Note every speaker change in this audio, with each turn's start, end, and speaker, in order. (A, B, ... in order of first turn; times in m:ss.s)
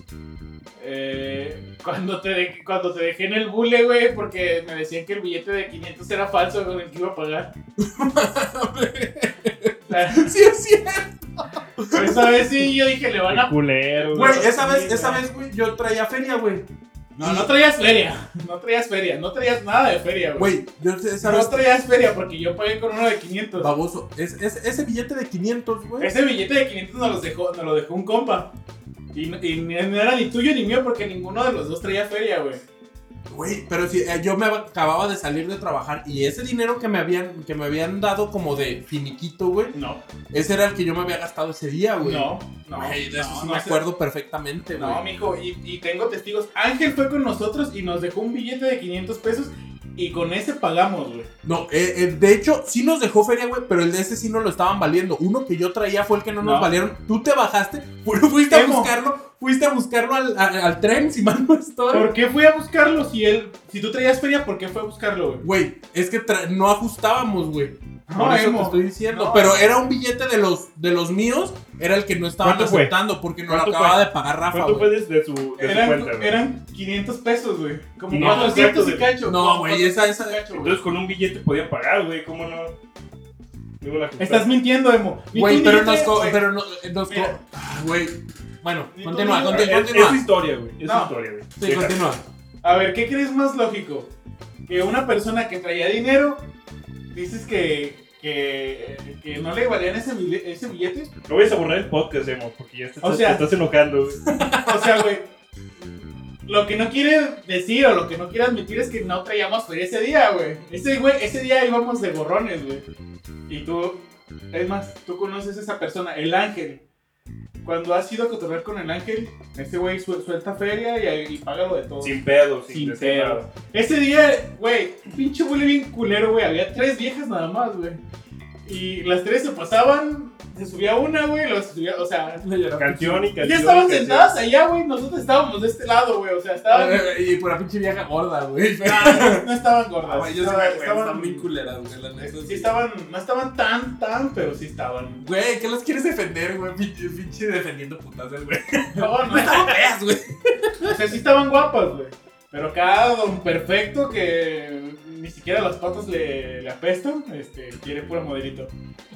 0:00.8-0:07.5 A
0:07.8-0:12.5 B
0:09.9-0:10.3 A
0:11.9-0:15.2 A
0:13.3-0:14.4 C
0:14.1-0:16.7 B
0:17.2-0:20.6 A
0:17.2-0:17.5 B
0:20.4-0:21.6 B
0:21.2-0:23.7 A
0:23.6-0:26.1 B
0:26.0-0:28.5 A
0:29.1-0:32.6 A
0:33.3-0:39.8 B
0:39.7-0:40.0 A
0:40.3-0:45.0 B
0:42.0-0:43.8 A
0:44.7-0:51.3 A
0:51.4-1:02.1 B
0:56.4-0:56.7 A
0:58.5-0:58.9 A
1:01.9-1:05.4 A
1:05.4-1:14.9 B
1:08.1-1:09.7 A
1:12.4-1:12.9 C
1:13.4-1:16.3 C
1:15.6-1:20.7 A
1:18.1-1:19.1 C
1:18.1-1:20.4 B
1:20.5-1:22.7 C
1:23.8-1:24.5 C
1:24.2-1:26.4 A
1:25.3-1:30.2 B
1:27.1-1:27.4 A
1:28.9-1:30.1 A
1:29.5-1:32.0 C
1:30.8-1:31.1 A
1:31.6-1:32.2 B
1:32.6-1:34.1 A
1:34.7-1:36.4 A
1:37.1-1:41.1 A
1:41.3-1:44.3 C
1:43.0-1:43.4 A
1:44.3-1:45.0 B
1:44.4-1:45.3 A
1:46.5-1:52.8 A
1:53.5-1:56.8 A
1:57.6-2:02.2 A
2:02.0-2:03.5 C
2:02.7-2:08.0 A
2:08.6-2:12.4 A
2:12.4-2:13.3 B
2:12.8-2:14.3 C
2:13.4-2:17.0 A
2:16.7-2:19.5 B
2:18.8-2:21.5 A
2:20.0-2:22.7 B
2:22.2-2:25.2 A
2:25.2-2:31.0 B
2:28.9-2:29.7 A
2:30.8-2:38.7 A